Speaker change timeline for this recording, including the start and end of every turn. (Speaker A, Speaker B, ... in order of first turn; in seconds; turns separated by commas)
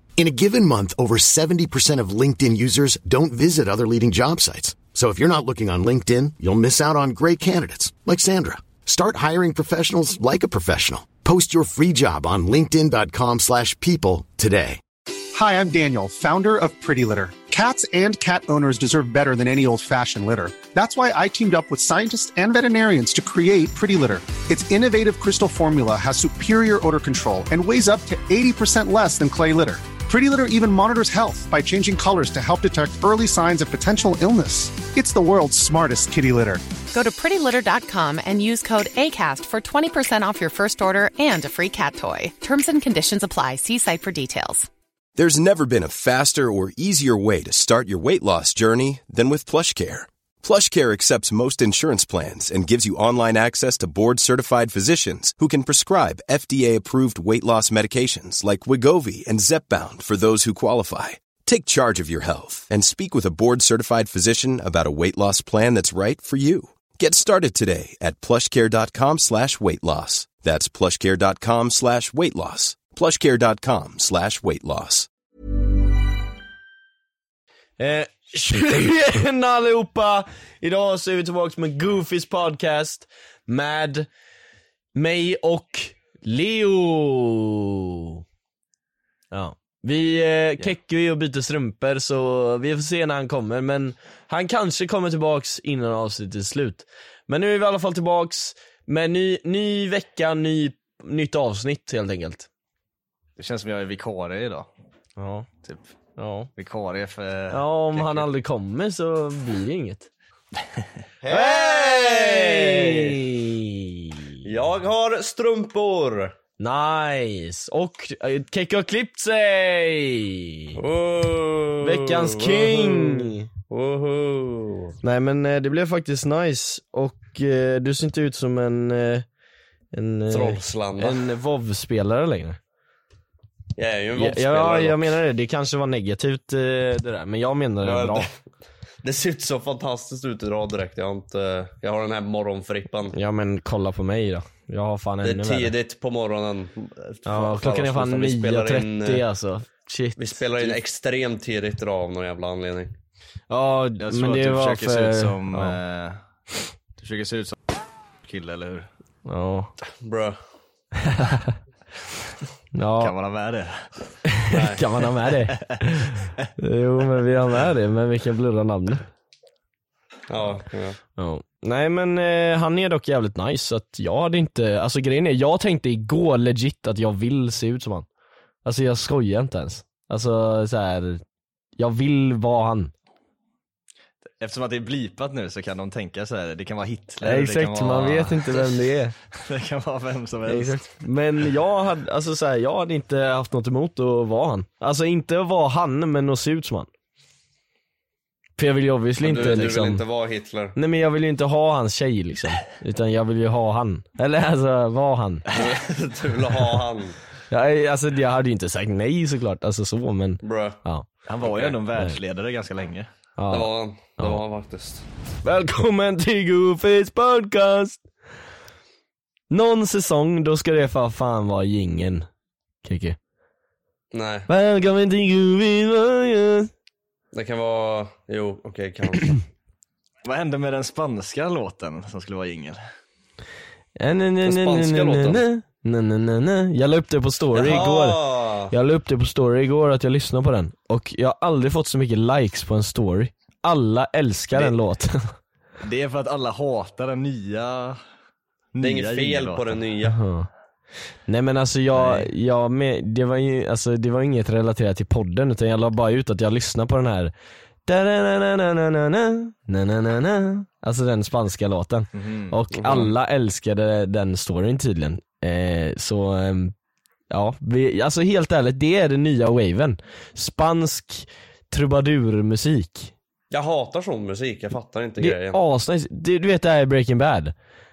Speaker A: 0.2-14.8, Speaker B: 15.3-36.6, Speaker C: 36.9-44.7, Speaker D: 45.1-75.1, Speaker E: 77.8-84.1, Speaker E: 84.9-87.7, Speaker E: 89.3-102.5, Speaker F: 103.4-104.7, Speaker E: 105.2-105.5, Speaker F: 105.6-105.9, Speaker E: 106.2-106.5, Speaker F: 106.5-108.3, Speaker E: 107.5-110.1, Speaker G: 111.2-113.1, Speaker E: 111.3-114.2, Speaker G: 114.4-116.3, Speaker E: 116.6-120.7, Speaker G: 120.7-124.9, Speaker E: 121.8-123.5, Speaker E: 125.0-129.2, Speaker E: 129.9-132.6, Speaker G: 130.3-131.2, Speaker G: 133.8-135.1, Speaker E: 134.2-138.3, Speaker G: 137.8-138.4, Speaker G: 139.0-143.2, Speaker E: 143.1-145.7, Speaker G: 145.2-149.2, Speaker E: 147.2-150.8, Speaker G: 150.2-152.9, Speaker E: 153.5-155.8, Speaker F: 154.0-156.2, Speaker F: 157.0-157.5, Speaker F: 158.2-158.9, Speaker E: 159.2-159.7, Speaker G: 160.0-160.4, Speaker E: 161.1-161.5, Speaker E: 162.7-163.1, Speaker F: 163.0-163.9, Speaker E: 164.3-169.0, Speaker G: 164.5-164.8, Speaker F: 165.7-166.5, Speaker G: 170.3-171.0, Speaker E: 171.2-178.1, Speaker E: 178.6-181.2, Speaker E: 181.8-182.9, Speaker F: 184.2-190.9, Speaker E: 187.2-189.1, Speaker E: 190.4-196.9, Speaker E: 198.6-200.0, Speaker G: 199.2-200.8, Speaker E: 200.7-205.4, Speaker G: 205.5-207.2, Speaker E: 207.5-211.1, Speaker G: 210.4-210.8, Speaker F: 211.2-213.1, Speaker G: 211.4-211.8, Speaker E: 213.4-214.4, Speaker G: 213.5-215.1, Speaker E: 215.4-218.0, Speaker E: 219.5-222.3, Speaker E: 222.8-223.2, Speaker G: 224.1-224.5, Speaker E: 224.5-226.7, Speaker G: 227.3-229.4, Speaker F: 230.2-232.8, Speaker E: 234.0-238.2, Speaker G: 234.4-235.4, Speaker G: 237.5-238.7, Speaker E: 238.7-245.3, Speaker F: 245.8-248.0, Speaker F: 248.7-249.8, Speaker G: 248.8-250.2, Speaker E: 250.1-250.5, Speaker E: 251.3-257.3, Speaker F: 251.9-252.3, Speaker E: 257.9-266.7, Speaker F: 262.1-262.5, Speaker G: 262.8-263.1, Speaker E: 267.3-273.1, Speaker G: 273.5-275.6, Speaker E: 275.2-277.5